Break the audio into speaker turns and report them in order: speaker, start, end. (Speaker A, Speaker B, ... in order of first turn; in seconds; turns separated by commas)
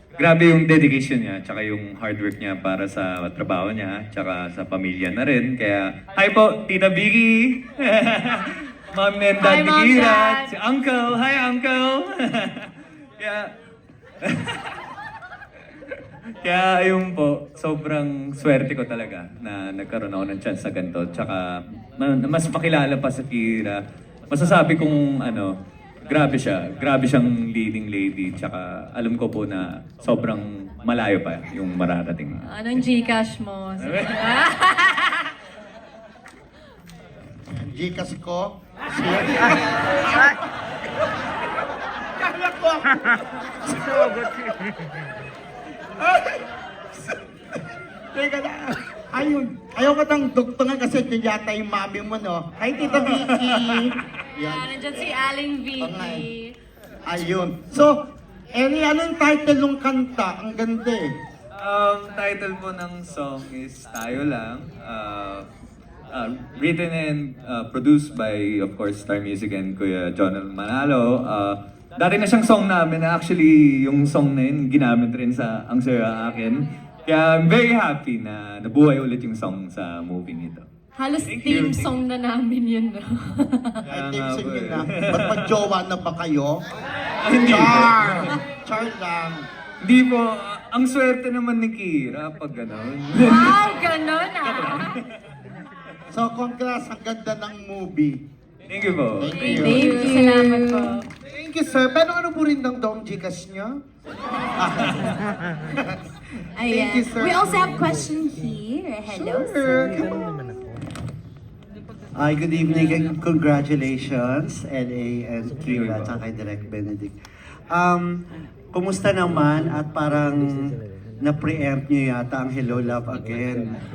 Speaker A: 0.2-13.5, Speaker B: 9.4-10.5, Speaker A: 14.2-14.8, Speaker A: 16.4-32.8, Speaker B: 32.4-35.2, Speaker A: 33.8-34.3, Speaker C: 37.5-40.4, Speaker C: 42.0-44.3, Speaker C: 46.0-46.4, Speaker C: 47.0-47.6, Speaker C: 48.1-55.1, Speaker A: 52.9-53.9, Speaker B: 54.5-56.5, Speaker C: 55.8-56.3, Speaker C: 57.0-58.0, Speaker C: 58.5-61.1, Speaker A: 61.6-65.5, Speaker A: 66.1-80.7, Speaker B: 81.0-83.8, Speaker A: 81.2-81.9, Speaker C: 83.9-86.6, Speaker A: 83.9-85.5, Speaker A: 87.2-88.2, Speaker C: 87.3-89.5, Speaker A: 89.8-93.6, Speaker B: 93.2-94.9, Speaker A: 94.4-95.0, Speaker C: 96.1-98.2, Speaker A: 98.7-99.8, Speaker C: 99.2-100.0, Speaker B: 99.3-101.1, Speaker D: 99.8-101.0, Speaker C: 101.3-103.8, Speaker C: 104.6-105.1, Speaker D: 106.6-109.9, Speaker C: 106.6-107.8, Speaker C: 109.1-110.1, Speaker E: 112.1-117.1, Speaker E: 117.7-118.2, Speaker E: 118.7-120.7, Speaker E: 121.2-123.7